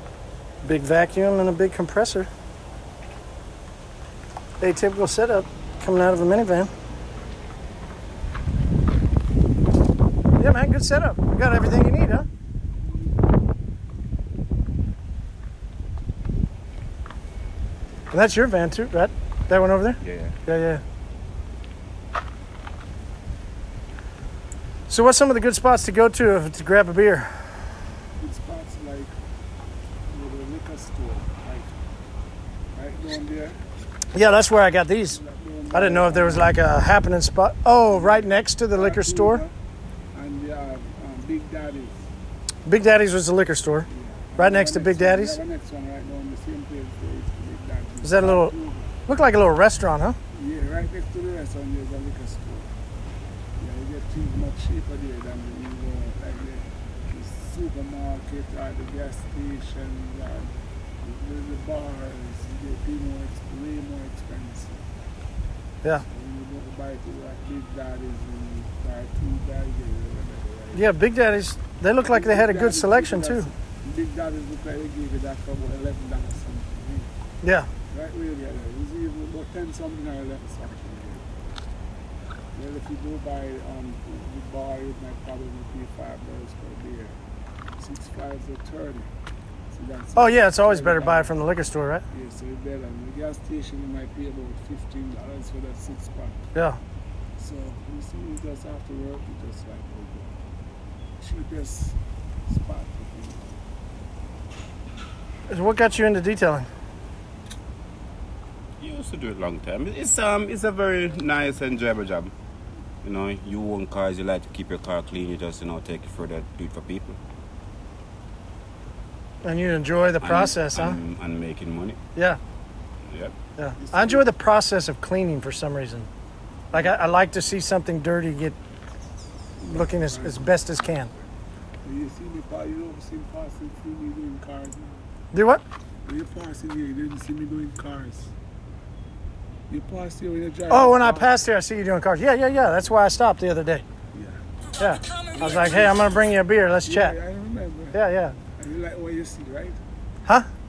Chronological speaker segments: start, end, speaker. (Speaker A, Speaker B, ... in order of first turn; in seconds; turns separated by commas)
Speaker A: 0.6-2.3, Speaker A: 4.6-6.7, Speaker A: 10.4-12.3, Speaker A: 18.1-20.8, Speaker B: 20.0-20.4, Speaker A: 24.9-27.3, Speaker C: 28.2-29.1, Speaker C: 30.1-31.7, Speaker C: 32.8-33.6, Speaker A: 34.1-35.2, Speaker C: 35.1-36.6, Speaker A: 35.7-39.4, Speaker C: 37.9-39.5, Speaker C: 40.1-42.1, Speaker A: 42.7-43.9, Speaker C: 43.9-49.0, Speaker A: 44.4-45.4, Speaker A: 48.0-48.5, Speaker A: 49.1-50.2, Speaker C: 50.3-52.7, Speaker C: 53.6-60.5, Speaker C: 61.0-65.1, Speaker C: 66.0-70.8, Speaker A: 70.7-73.5, Speaker C: 72.0-77.1, Speaker A: 77.4-77.7, Speaker C: 77.9-81.3, Speaker C: 82.5-87.2, Speaker C: 87.8-89.1, Speaker C: 89.7-91.3, Speaker A: 90.2-92.0, Speaker C: 92.1-96.5, Speaker C: 97.4-100.3, Speaker C: 101.2-103.5, Speaker A: 105.5-106.7, Speaker B: 108.8-112.3, Speaker B: 113.0-117.2, Speaker A: 119.4-121.0, Speaker B: 120.2-122.0, Speaker B: 123.1-123.3, Speaker A: 123.6-126.1, Speaker C: 123.8-124.3, Speaker A: 126.7-128.6, Speaker A: 129.7-131.1, Speaker C: 129.8-131.2, Speaker C: 131.8-135.1, Speaker A: 135.3-135.6, Speaker C: 136.1-138.3, Speaker C: 139.7-141.3, Speaker A: 140.7-143.8, Speaker C: 144.1-144.4, Speaker A: 144.8-147.2, Speaker C: 145.3-146.3, Speaker C: 146.8-148.0, Speaker A: 147.9-148.3, Speaker C: 148.6-149.8